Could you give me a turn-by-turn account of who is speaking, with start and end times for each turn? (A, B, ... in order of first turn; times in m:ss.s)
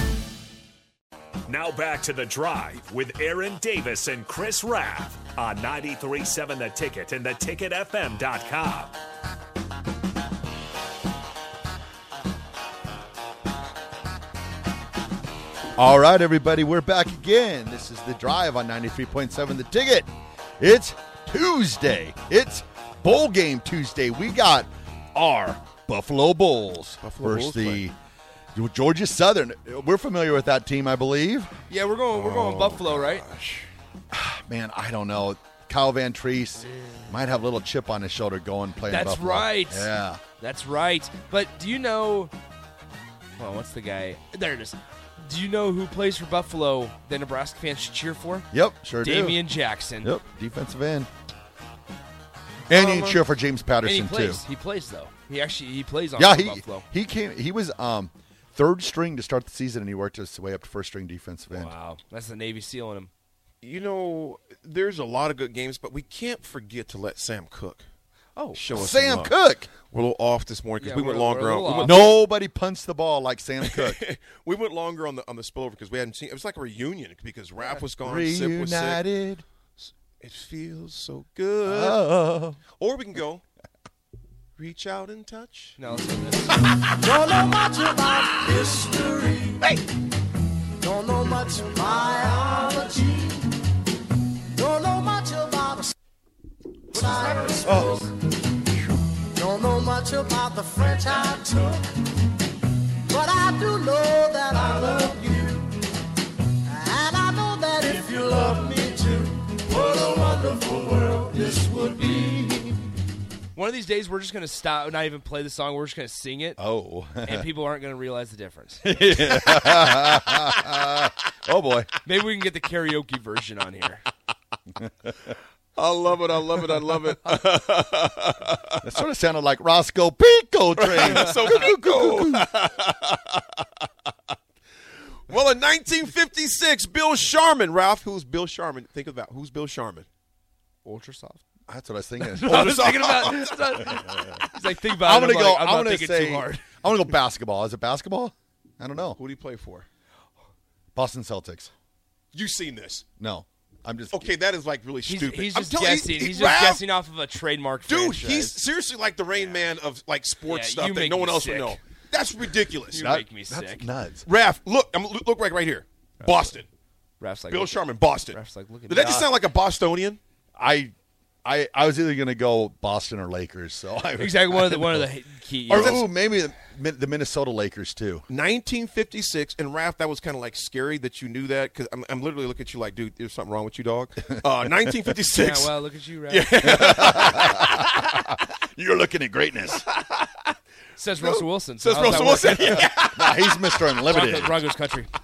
0:01.4-0:08.9 A
0:15.8-0:27.9 B
0:27.0-0:27.9 C
0:28.5-0:31.5 B
0:31.7-0:33.2 D
0:32.1-0:33.7 C
0:34.1-0:40.2 B
0:38.9-0:42.3 D
0:43.4-0:48.4 D
0:48.5-0:49.4 B
0:49.0-0:50.1 D
0:50.0-0:51.1 B
0:52.7-0:53.3 D
0:52.7-0:54.4 B
0:53.8-0:56.8 D
0:56.2-1:01.7 B
1:01.5-1:03.1 D
1:03.6-1:07.8 C
1:08.4-1:08.7 D
1:08.5-1:12.2 C
1:08.7-1:09.7 B
1:10.8-1:12.0 D
1:11.8-1:14.0 B
1:13.6-1:19.0 C
1:18.0-1:19.4 B
1:19.8-1:22.0 C
1:21.6-1:22.6 B
1:22.8-1:23.4 C
1:24.6-1:25.8 C
1:25.8-1:26.6 D
1:27.0-1:29.6 E
1:30.8-1:33.5 E
1:34.5-1:35.9 E
1:36.9-1:38.0 D
1:37.0-1:38.0 E
1:37.6-1:38.0 B
1:39.3-1:42.0 E
1:43.1-1:45.8 E
1:46.7-1:52.7 E
1:53.5-1:56.6 D
1:56.6-1:57.4 B
1:57.2-1:59.5 D
1:58.8-2:02.0 B
2:02.0-2:04.0 D
2:04.8-2:05.1 B
2:05.8-2:08.8 C
2:08.8-2:12.5 B
2:10.8-2:13.4 C
2:15.3-2:20.1 C
2:20.8-2:21.4 D
2:21.7-2:22.9 B
2:22.2-2:26.7 D
2:22.4-2:24.3 C
2:23.9-2:24.4 B
2:25.0-2:29.2 B
2:29.2-2:29.9 C
2:30.9-2:31.7 B
2:32.3-2:33.0 C
2:33.2-2:34.2 B
2:34.1-2:36.8 C
2:35.0-2:38.6 D
2:37.8-2:43.1 C
2:39.3-2:39.8 D
2:40.4-2:41.8 D
2:42.9-2:43.9 D
2:42.9-2:44.2 B
2:44.2-2:46.7 C
2:47.2-2:49.3 D
2:47.5-2:50.2 C
2:50.6-2:50.9 B
2:51.4-2:55.1 B
2:54.2-2:56.2 D
2:55.6-2:58.2 B
2:55.7-2:56.0 C
2:58.3-3:05.8 C
3:04.9-3:05.2 B
3:05.3-3:07.0 D
3:06.3-3:08.1 C
3:06.6-3:09.8 B
3:09.9-3:10.5 C
3:11.0-3:13.0 D
3:11.2-3:14.0 C
3:12.3-3:14.6 B
3:14.0-3:15.1 D